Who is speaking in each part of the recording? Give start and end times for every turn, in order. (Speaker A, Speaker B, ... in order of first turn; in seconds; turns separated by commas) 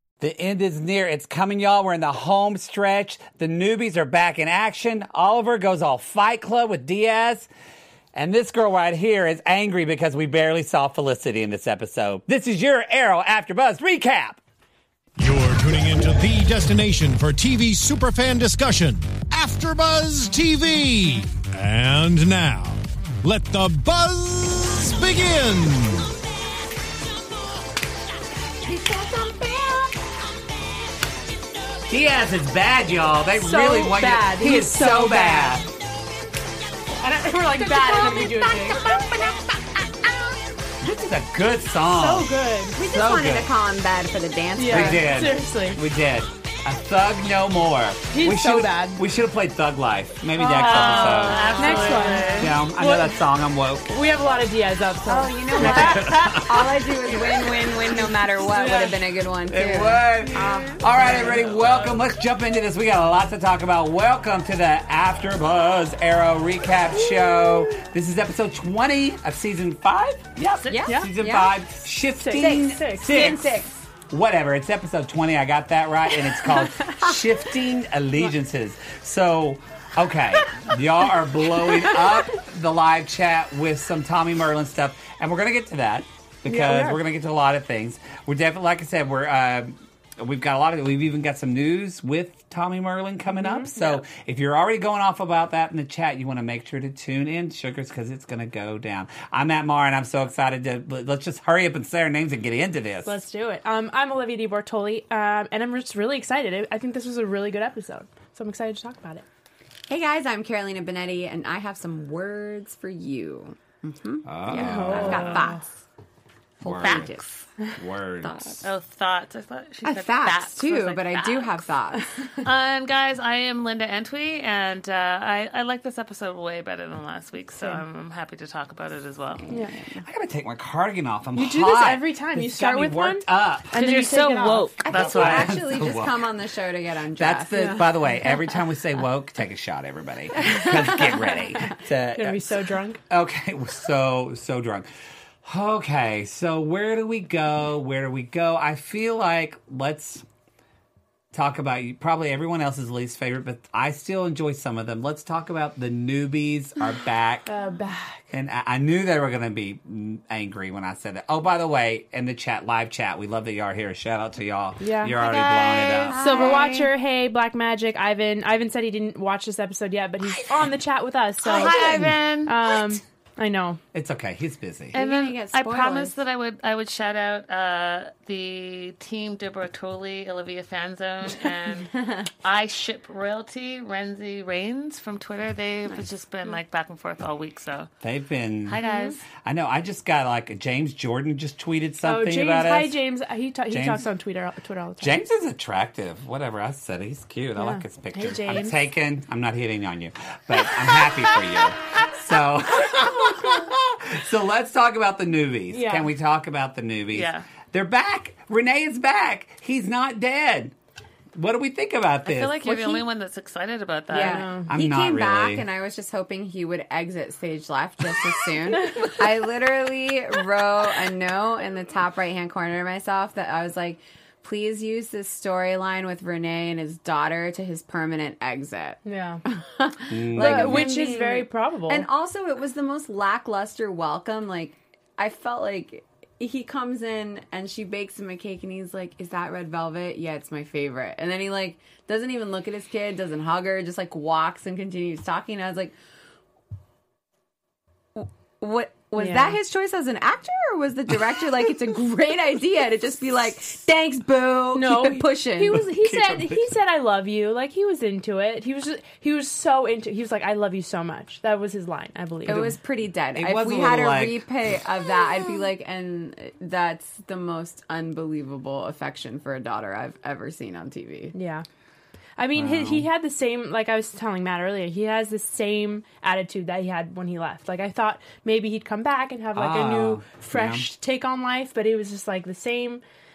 Speaker A: 0.2-7.5, Speaker A: 8.1-14.4, Speaker B: 15.2-26.1, Speaker C: 28.6-30.0, Speaker A: 31.9-35.7, Speaker D: 33.4-35.6, Speaker D: 37.0-39.0, Speaker C: 37.3-40.4, Speaker A: 40.8-43.5, Speaker D: 41.9-42.8, Speaker C: 42.7-45.1, Speaker D: 44.5-45.8, Speaker A: 44.6-53.9, Speaker D: 48.1-49.0, Speaker D: 50.4-53.2, Speaker E: 50.5-52.5, Speaker C: 51.4-52.3, Speaker D: 53.9-56.3, Speaker C: 55.1-61.5, Speaker A: 55.6-56.8, Speaker D: 57.9-59.0, Speaker A: 59.5-103.2, Speaker D: 60.6-61.4, Speaker E: 61.3-61.7, Speaker D: 67.0-67.8, Speaker C: 70.7-71.5, Speaker D: 70.8-71.1, Speaker D: 72.2-73.3, Speaker C: 72.3-73.8, Speaker D: 76.4-77.1, Speaker D: 81.6-82.3, Speaker D: 86.5-87.0, Speaker D: 93.3-93.7, Speaker D: 103.0-109.2, Speaker C: 109.9-115.7, Speaker A: 114.2-115.4, Speaker D: 114.5-115.6, Speaker E: 114.9-115.5, Speaker C: 116.6-117.2, Speaker A: 116.6-117.1, Speaker E: 116.8-117.5, Speaker A: 117.7-118.5, Speaker C: 118.2-118.7, Speaker E: 118.6-121.7, Speaker C: 119.8-122.2, Speaker E: 122.4-129.4, Speaker C: 129.4-130.0, Speaker D: 129.5-129.7, Speaker A: 130.0-133.8, Speaker D: 131.3-134.7, Speaker E: 133.7-135.5, Speaker C: 134.8-137.8, Speaker A: 134.9-136.3, Speaker A: 137.2-142.5, Speaker D: 137.6-137.8, Speaker D: 140.4-140.7, Speaker D: 142.1-143.0, Speaker A: 143.1-144.9, Speaker A: 145.4-150.2, Speaker A: 151.3-157.5, Speaker D: 157.5-158.2, Speaker A: 158.3-166.6, Speaker D: 164.8-165.2, Speaker E: 165.2-166.2, Speaker C: 165.5-166.9, Speaker D: 166.2-171.8, Speaker E: 171.4-172.9, Speaker A: 171.6-172.2, Speaker D: 172.4-173.8, Speaker A: 173.9-175.0, Speaker C: 174.9-176.2, Speaker E: 174.9-181.9, Speaker C: 181.9-182.3, Speaker E: 182.4-187.9, Speaker A: 188.0-188.8, Speaker E: 188.6-189.2, Speaker D: 188.8-189.2, Speaker A: 189.4-193.0, Speaker D: 192.0-195.2, Speaker A: 193.7-194.1, Speaker A: 195.0-210.7, Speaker D: 197.6-198.8, Speaker D: 205.7-206.1, Speaker E: 207.1-207.5, Speaker A: 211.3-212.6, Speaker E: 212.2-214.4, Speaker C: 212.7-213.0, Speaker D: 214.1-214.7, Speaker C: 214.1-245.9, Speaker A: 214.7-215.7, Speaker D: 229.0-229.4, Speaker A: 230.1-231.1, Speaker D: 230.4-232.1, Speaker C: 248.1-255.8, Speaker D: 249.2-249.6, Speaker D: 254.7-262.7, Speaker A: 255.7-256.7, Speaker C: 262.4-271.3, Speaker A: 263.3-264.4, Speaker D: 271.3-271.6, Speaker D: 272.4-283.0, Speaker A: 272.5-273.1, Speaker A: 279.5-280.9